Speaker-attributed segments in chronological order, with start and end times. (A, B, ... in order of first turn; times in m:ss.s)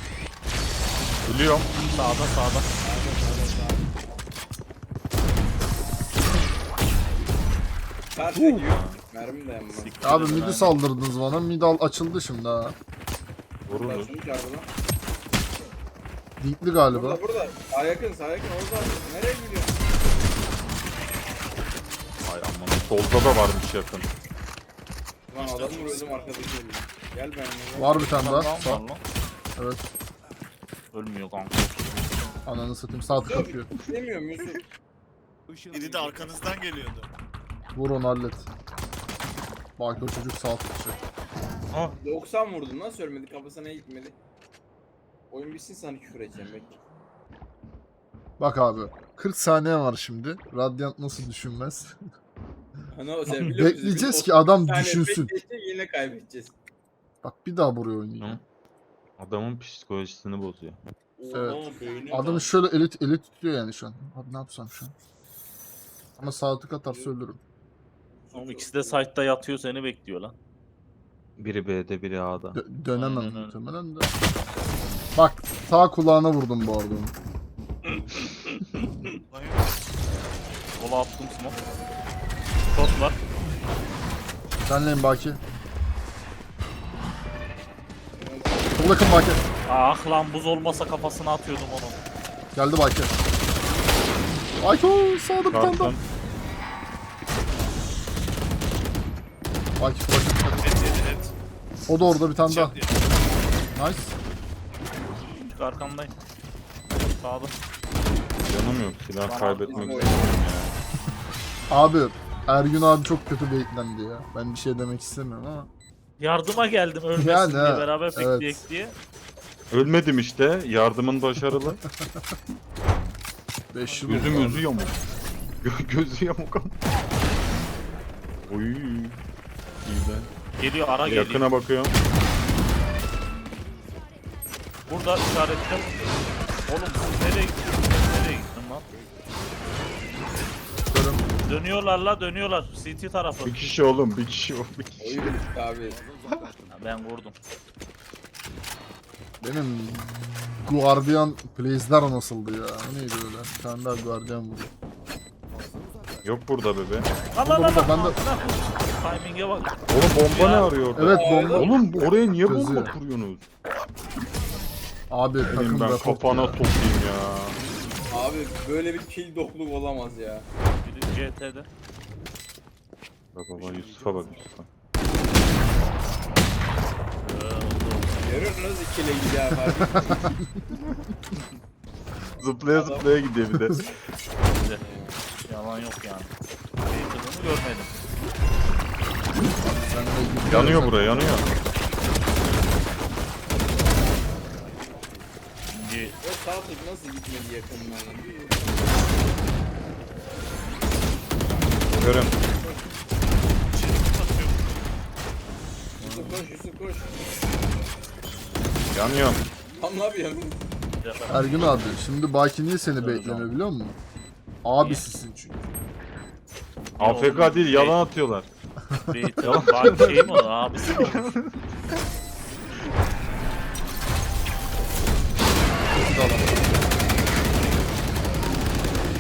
0:01.2-0:01.7 A
0:01.9-0:02.7 B
0:02.8-0:04.0 C
0:08.1-0:10.3 C
0:08.5-0:09.0 A
0:09.8-0:10.8 B
0:10.0-0:12.8 D
0:13.7-0:14.2 A
0:13.7-0:14.7 C
0:16.4-0:17.2 D
0:16.9-0:19.8 C
0:22.2-0:24.1 A
0:25.3-0:28.2 C
0:25.3-0:26.5 E
0:27.8-0:28.8 D
0:28.1-0:29.0 B
0:29.6-0:29.9 D
0:30.9-0:32.0 B
0:32.4-0:33.7 D
0:33.1-0:34.6 C
0:35.7-0:37.1 E
0:37.8-0:38.5 D
0:39.8-0:41.0 D
0:41.7-0:42.0 A
0:42.0-0:44.2 C
0:45.3-0:46.8 C
0:48.4-0:52.0 D
0:52.9-0:56.6 C
0:53.3-0:55.3 D
0:57.2-0:58.4 D
0:59.2-1:00.8 A
1:01.2-1:02.6 C
1:01.3-1:04.9 D
1:06.2-1:07.4 D
1:06.9-1:07.1 C
1:08.3-1:09.1 C
1:08.3-1:10.4 B
1:11.4-1:12.6 A
1:12.5-1:14.1 D
1:12.9-1:13.6 B
1:15.2-1:17.2 D
1:18.0-1:19.0 B
1:19.3-1:19.8 E
1:20.8-1:21.6 B
1:22.7-1:23.2 B
1:24.6-1:25.4 D
1:28.2-1:29.1 C
1:28.8-1:29.4 D
1:29.7-1:32.0 B
1:32.5-1:33.2 D
1:34.6-1:36.0 D
1:35.5-1:36.0 A
1:39.8-1:40.8 D
1:40.6-1:41.3 E
1:41.9-1:42.8 D
1:42.4-1:43.1 E
1:43.7-1:44.1 D
1:45.5-1:46.1 B
1:47.1-1:47.6 B
1:48.5-1:50.8 A
1:49.2-1:50.2 B
1:49.7-1:50.4 C
1:51.7-1:55.7 D
1:56.2-1:59.0 B
1:57.2-1:58.6 D
1:59.7-2:01.8 A
2:01.9-2:02.4 D
2:02.8-2:03.1 A
2:03.7-2:04.7 D
2:03.9-2:04.6 B
2:04.1-2:05.0 A
2:05.6-2:06.8 A
2:08.5-2:09.2 A
2:09.8-2:10.3 A
2:10.6-2:11.5 B
2:11.0-2:12.0 A
2:14.9-2:15.9 B
2:16.7-2:18.8 B
2:20.9-2:21.2 D
2:21.4-2:23.6 B
2:23.4-2:25.4 A
2:25.0-2:26.0 C
2:26.7-2:27.4 B
2:29.4-2:34.7 D
2:36.2-2:37.1 A
2:37.3-2:40.8 B
2:37.4-2:38.2 D
2:39.9-2:43.4 A
2:40.9-2:41.8 D
2:41.1-2:42.1 C
2:42.3-2:43.0 D
2:45.1-2:46.6 D
2:45.5-2:47.6 A
2:48.1-2:50.5 C
2:50.7-2:51.7 B
2:53.4-2:54.7 A
2:57.2-2:58.4 B
2:58.2-3:00.3 C
2:59.8-3:00.7 D
3:02.4-3:03.9 A
3:02.7-3:03.2 C
3:04.5-3:04.8 B
3:04.8-3:05.2 C
3:05.4-3:06.3 B
3:06.9-3:08.0 B
3:09.5-3:11.4 D
3:10.5-3:11.5 A
3:15.7-3:16.2 B
3:16.2-3:19.1 C
3:21.5-3:22.9 C
3:21.9-3:22.4 A
3:23.6-3:24.9 E
3:26.0-3:27.3 C
3:26.0-3:26.5 D
3:28.9-3:29.4 A
3:29.8-3:30.6 C
3:31.0-3:31.8 B
3:31.3-3:34.0 D
3:33.0-3:33.5 B
3:34.6-3:35.6 D
3:34.8-3:35.0 B
3:37.0-3:38.5 A
3:37.0-3:38.0 B
3:38.9-3:39.2 D
3:39.1-3:41.4 B
3:39.4-3:41.7 A
3:45.9-3:46.6 D